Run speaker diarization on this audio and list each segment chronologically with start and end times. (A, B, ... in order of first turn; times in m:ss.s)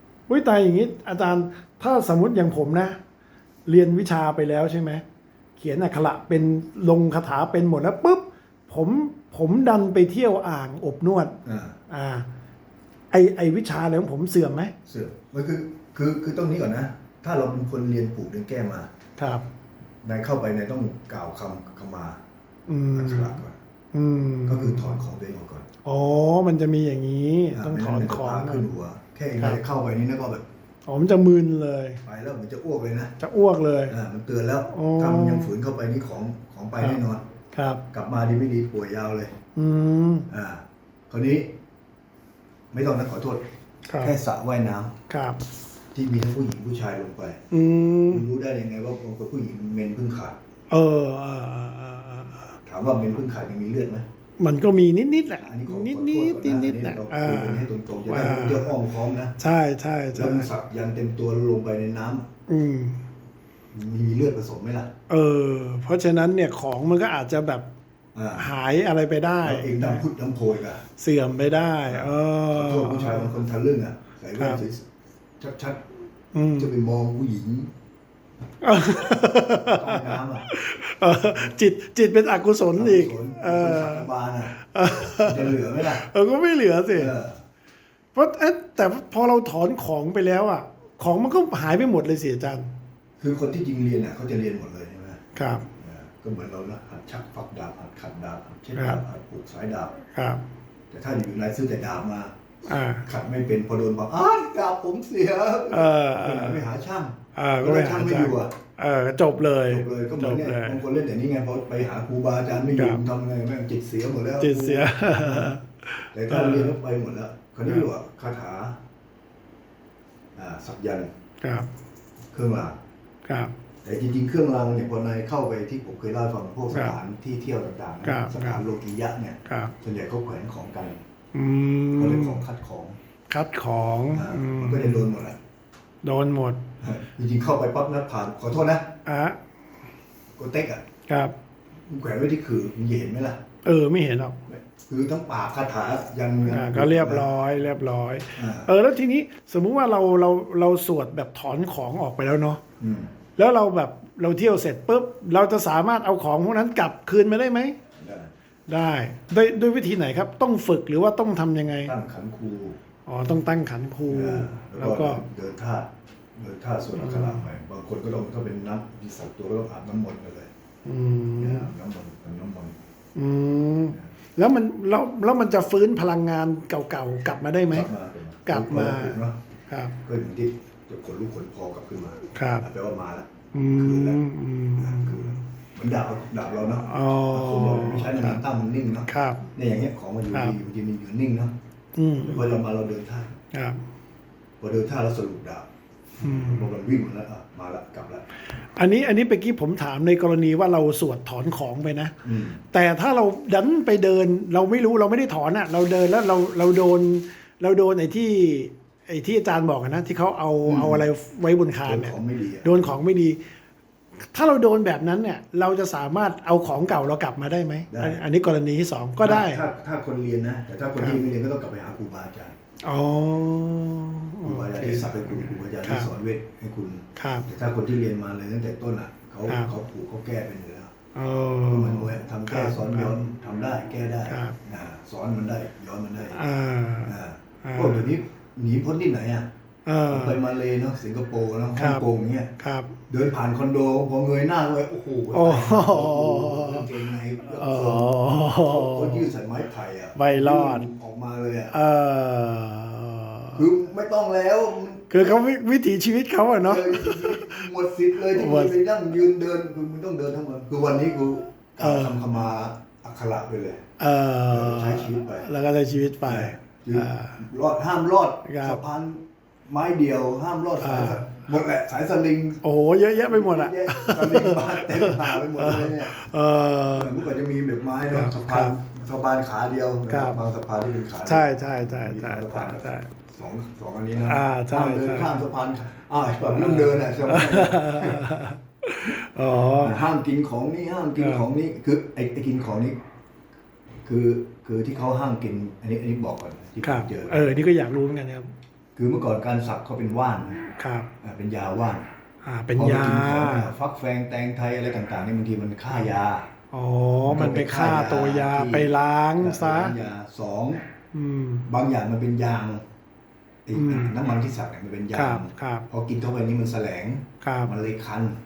0:00.3-0:03.0 A
0:03.7-0:05.0 A
0:05.6-0:12.3 A
0:11.4-0:11.8 B
0:13.1-0:14.7 A
0:14.9-0:18.9 B
0:19.2-0:19.4 A
0:20.0-0:22.2 B
0:22.7-0:23.4 A
0:22.9-0:23.6 B
0:23.9-0:25.0 A
0:24.5-0:25.7 B
0:25.8-0:28.7 A
0:27.5-0:30.4 B
0:30.9-0:32.0 A
0:32.0-0:33.2 B
0:33.2-0:34.0 A
0:33.9-0:37.2 B
0:34.7-0:35.5 A
0:36.8-0:37.8 A
0:37.9-0:39.4 B
0:39.6-0:40.3 A
0:40.3-0:41.5 B
0:42.7-0:43.4 B
0:44.0-0:45.0 B
0:45.1-0:45.4 A
0:45.9-0:47.4 B
0:47.5-0:48.3 A
0:48.1-0:50.4 B
0:50.7-0:52.6 A
0:52.7-0:54.1 B
0:54.4-0:58.8 A
0:55.4-0:59.4 B
0:59.4-1:00.5 A
1:00.1-1:02.3 B
1:02.5-1:03.1 A
1:03.7-1:04.9 B
1:05.1-1:07.7 A
1:08.2-1:08.5 B
1:08.4-1:10.1 A
1:09.4-1:10.8 B
1:11.0-1:13.3 A
1:11.9-1:14.9 B
1:14.4-1:14.6 A
1:15.4-1:15.9 B
1:16.3-1:16.7 A
1:16.6-1:17.7 B
1:18.6-1:27.1 A
1:19.6-1:20.5 B
1:21.1-1:21.6 B
1:22.7-1:24.6 B
1:25.2-1:26.1 B
1:26.9-1:27.4 B
1:28.1-1:32.7 A
1:33.2-1:35.2 B
1:35.4-1:35.7 A
1:35.8-1:40.0 B
1:38.8-1:39.0 A
1:40.1-1:40.4 A
1:40.9-1:42.4 B
1:42.7-1:43.1 A
1:42.9-1:48.5 B
1:45.7-1:46.7 A
1:47.4-1:50.8 A
1:49.7-1:55.5 B
1:52.8-1:53.0 A
1:54.4-1:56.8 A
1:56.1-1:58.8 B
2:00.4-2:01.1 B
2:01.4-2:01.7 A
2:02.3-2:02.8 B
2:03.3-2:03.6 A
2:03.8-2:11.0 B
2:08.0-2:08.6 A
2:09.5-2:09.7 A
2:11.3-2:12.4 A
2:12.0-2:13.0 B
2:13.3-2:15.1 A
2:14.1-2:15.4 B
2:16.0-2:16.6 A
2:16.8-2:19.0 B
2:19.0-2:19.4 A
2:20.4-2:20.8 B
2:21.1-2:21.4 A
2:21.9-2:23.4 B
2:23.6-2:24.4 A
2:24.5-2:27.3 B
2:26.4-2:32.6 A
2:28.4-2:28.7 B
2:32.8-2:33.1 B
2:33.4-2:37.8 A
2:38.0-2:38.3 B
2:38.7-2:41.9 A
2:41.8-2:42.8 B
2:43.1-2:45.2 A
2:44.1-2:50.5 B
2:47.0-2:47.5 A
2:50.8-2:51.7 A
2:51.4-2:52.8 B
2:53.2-2:57.9 A
2:57.7-2:59.4 B
2:58.5-3:00.0 A
3:00.0-3:04.2 B
3:02.4-3:02.7 A
3:03.5-3:05.4 A
3:04.8-3:11.5 B
3:06.8-3:08.4 A
3:09.1-3:09.4 A
3:10.3-3:10.6 A
3:12.0-3:12.6 A
3:12.2-3:13.4 B
3:13.5-3:13.8 A
3:14.6-3:15.7 B
3:16.2-3:18.3 B
3:16.2-3:16.7 A
3:18.8-3:22.2 A
3:22.2-3:22.6 B
3:22.7-3:33.4 A
3:30.6-3:31.0 B
3:31.8-3:33.0 B
3:34.2-3:39.6 A
3:37.9-3:38.2 B
3:39.2-3:42.6 B
3:42.8-3:46.1 A
3:44.4-3:50.9 B
3:47.2-3:47.5 A
3:49.5-3:49.7 A
3:51.2-3:53.2 A
3:51.7-3:56.4 B
3:54.3-3:54.6 A
3:56.3-3:58.1 A
3:57.0-3:59.5 B
3:59.9-4:00.4 A
4:00.1-4:02.5 B
4:01.8-4:02.1 A
4:02.6-4:03.0 A
4:03.1-4:11.7 B
4:05.3-4:06.9 A
4:07.4-4:09.3 A
4:10.2-4:10.9 A
4:11.7-4:13.7 A
4:13.5-4:15.4 B
4:15.1-4:18.8 A
4:16.6-4:23.8 B
4:21.8-4:22.2 A
4:24.0-4:27.4 A
4:24.5-4:25.5 B
4:26.2-4:32.6 B
4:28.4-4:28.8 A
4:30.8-4:31.2 A
4:32.6-4:37.2 A
4:33.1-4:36.1 B
4:36.9-4:48.3 B
4:38.1-4:38.8 A
4:40.1-4:40.4 A
4:41.2-4:43.1 A
4:44.2-4:45.4 A
4:46.5-4:50.0 A
4:49.8-4:53.0 B
4:51.2-4:51.5 A
4:54.0-4:57.5 B
4:56.8-4:58.5 A
4:59.0-5:00.7 B
5:00.7-5:01.1 A
5:01.2-5:02.1 B
5:02.4-5:03.7 A
5:02.8-5:06.5 B
5:06.7-5:10.0 A
5:07.3-5:10.9 B
5:11.1-5:11.7 A
5:11.7-5:12.8 B
5:13.7-5:18.4 B
5:13.7-5:14.2 A
5:15.1-5:15.9 A
5:17.4-5:17.7 A